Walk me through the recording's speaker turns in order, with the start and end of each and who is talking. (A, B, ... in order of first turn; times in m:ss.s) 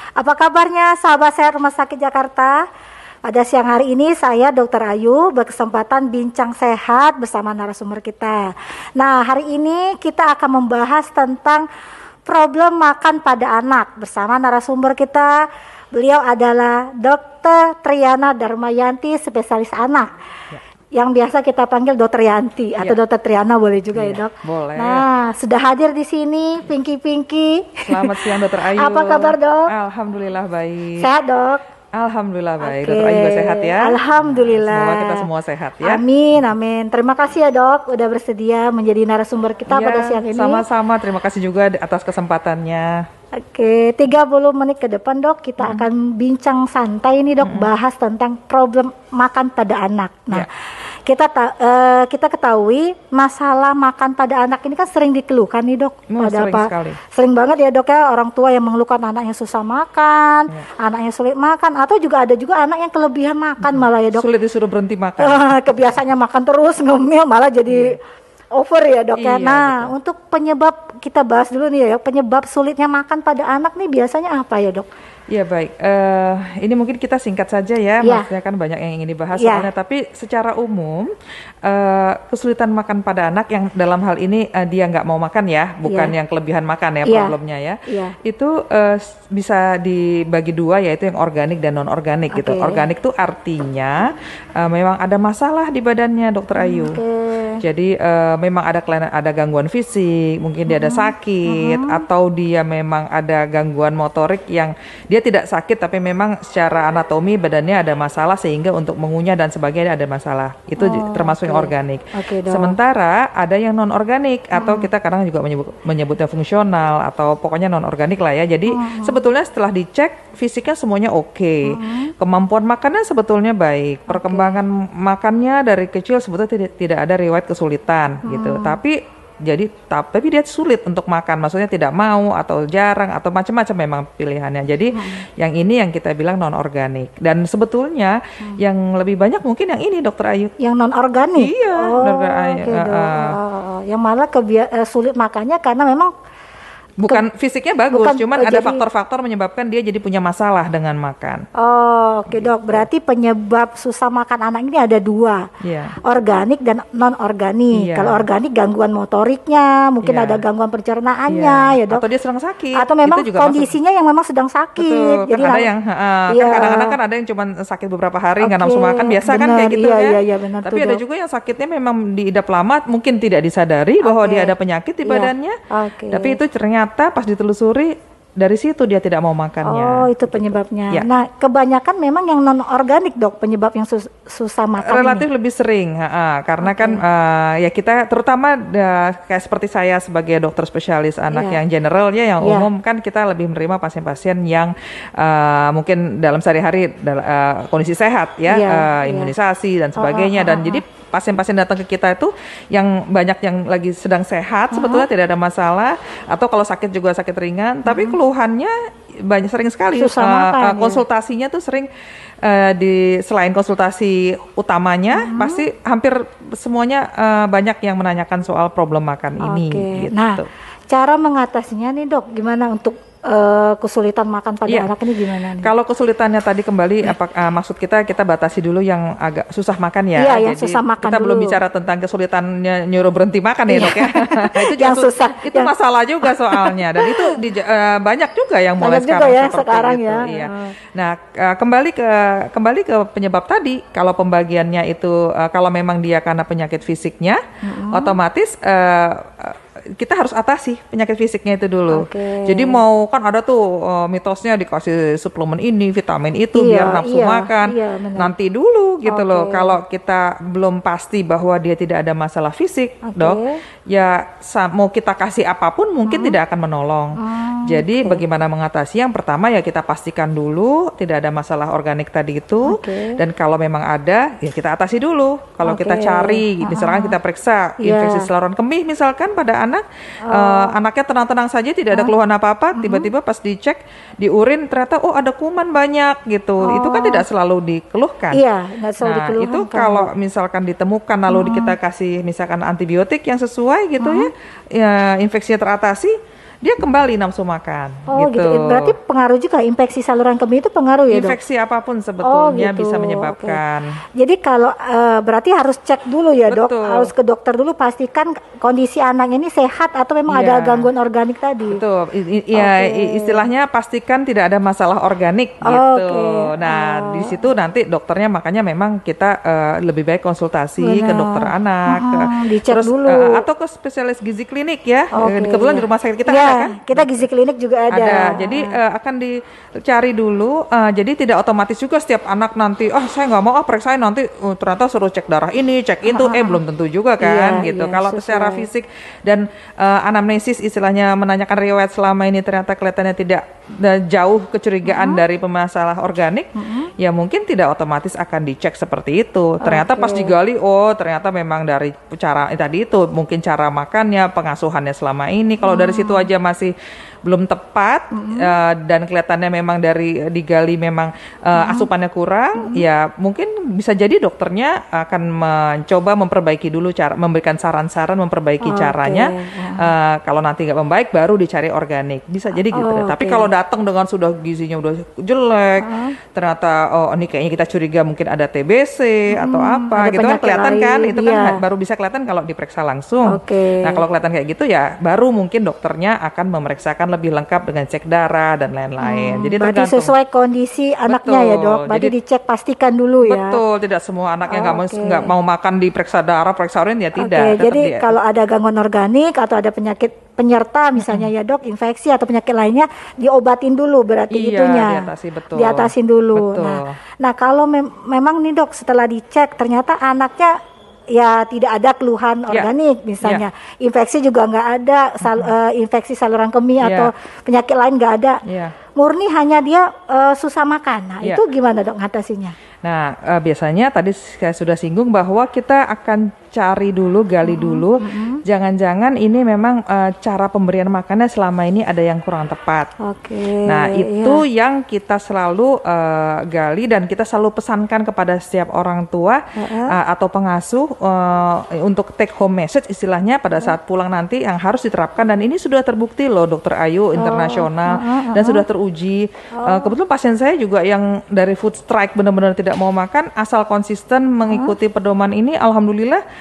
0:00.2-0:02.6 A
0:03.2-0:11.6 A
0:12.2-0:15.4 A
0:15.9-0:20.1 A
0:21.0-0:29.7 A
0:23.9-0:25.0 B
0:27.8-0:31.1 B
0:31.0-0:31.6 A
0:31.9-0:36.0 B
0:32.6-0:35.3 A
0:35.8-0:40.6 A
0:39.7-0:43.0 B
0:43.4-0:50.5 A
0:45.6-0:45.8 B
0:47.4-0:47.7 B
0:51.0-1:04.3 A
0:56.1-0:57.0 B
1:03.6-1:05.6 B
1:05.2-1:08.0 A
1:07.7-1:08.0 B
1:08.5-1:14.9 A
1:09.2-1:09.9 B
1:15.3-1:21.1 B
1:18.0-1:18.3 A
1:19.4-1:19.7 A
1:21.6-1:37.0 B
1:25.8-1:26.1 A
1:27.0-1:27.3 A
1:27.9-1:28.1 A
1:32.3-1:32.8 A
1:36.6-1:37.6 A
1:37.6-2:20.5 B
1:40.7-1:42.0 A
1:50.8-1:52.8 A
1:54.5-1:54.9 A
1:58.7-1:59.2 A
2:01.7-2:02.1 A
2:04.1-2:04.6 A
2:08.2-2:08.8 A
2:14.9-2:15.2 A
2:20.6-2:26.1 A
2:21.4-2:23.4 B
2:27.0-2:31.4 B
2:27.9-2:28.8 A
2:31.6-2:35.4 A
2:32.3-2:32.8 B
2:35.6-2:35.9 B
2:36.0-2:42.0 A
2:37.7-2:38.3 B
2:40.0-2:40.4 B
2:41.3-2:43.7 B
2:42.7-2:45.7 A
2:44.8-2:55.6 B
2:46.3-2:47.0 A
2:48.4-2:51.0 A
2:54.0-2:54.5 A
2:55.0-2:56.4 A
2:56.1-3:01.1 B
2:59.6-3:05.2 A
3:04.8-3:31.9 B
3:06.6-3:07.0 A
3:11.3-3:11.6 A
3:12.4-3:12.7 A
3:18.5-3:19.3 A
3:20.0-3:20.8 A
3:24.7-3:25.0 A
3:27.8-3:28.2 A
3:29.9-3:31.0 A
3:32.4-3:40.5 B
3:35.1-3:35.6 A
3:39.4-3:45.7 A
3:44.7-3:44.9 B
3:45.5-4:48.4 B
3:50.2-3:51.6 A
3:53.7-3:55.7 A
3:56.2-3:57.4 A
3:58.8-4:00.7 A
4:07.6-4:08.2 A
4:11.9-4:12.8 A
4:16.5-4:18.3 A
4:19.0-4:19.8 A
4:23.0-4:23.6 A
4:26.0-4:26.4 A
4:27.2-4:28.2 A
4:32.6-4:33.2 A
4:35.6-4:37.2 A
4:37.8-4:38.3 A
4:40.2-4:40.7 A
4:42.7-4:43.1 A
4:46.6-4:47.2 A
4:48.3-4:50.1 A
4:49.0-4:58.9 B
4:51.3-4:51.8 A
4:54.0-4:54.3 A
4:58.1-5:01.4 A
5:01.1-5:04.0 B
5:02.2-5:03.6 A
5:04.2-5:11.8 A
5:06.5-5:07.1 B
5:10.3-5:10.9 B
5:11.7-5:27.2 B
5:12.5-5:13.5 A
5:15.6-5:17.5 A
5:20.8-5:23.4 A
5:25.1-5:28.7 A
5:27.9-5:56.7 B
5:36.1-5:36.6 A
5:37.2-5:38.7 A
5:44.8-5:45.2 A
5:46.6-5:46.9 A
5:49.6-5:50.3 A
5:55.6-5:56.3 A
5:57.2-6:30.1 B
5:58.1-5:58.5 A
6:01.5-6:01.9 A
6:02.6-6:02.8 A
6:08.6-6:09.9 A
6:12.7-6:13.5 A
6:15.8-6:16.2 A
6:19.3-6:21.6 A
6:23.3-6:24.0 A
6:29.0-6:33.6 A
6:31.0-6:32.1 B
6:33.2-6:38.1 B
6:34.5-6:35.3 A
6:37.2-6:50.6 A
6:41.0-6:41.3 B
6:44.3-6:47.0 B
6:51.1-6:58.4 A
6:55.2-6:55.5 B
6:56.8-6:57.1 B
6:58.4-6:58.7 B
6:58.9-7:02.6 A
7:02.8-7:12.9 B
7:07.4-7:08.4 A
7:13.0-7:14.4 A
7:13.6-7:36.2 B
7:19.6-7:20.0 A
7:27.2-7:28.6 A
7:29.5-7:29.9 A
7:34.5-7:34.7 A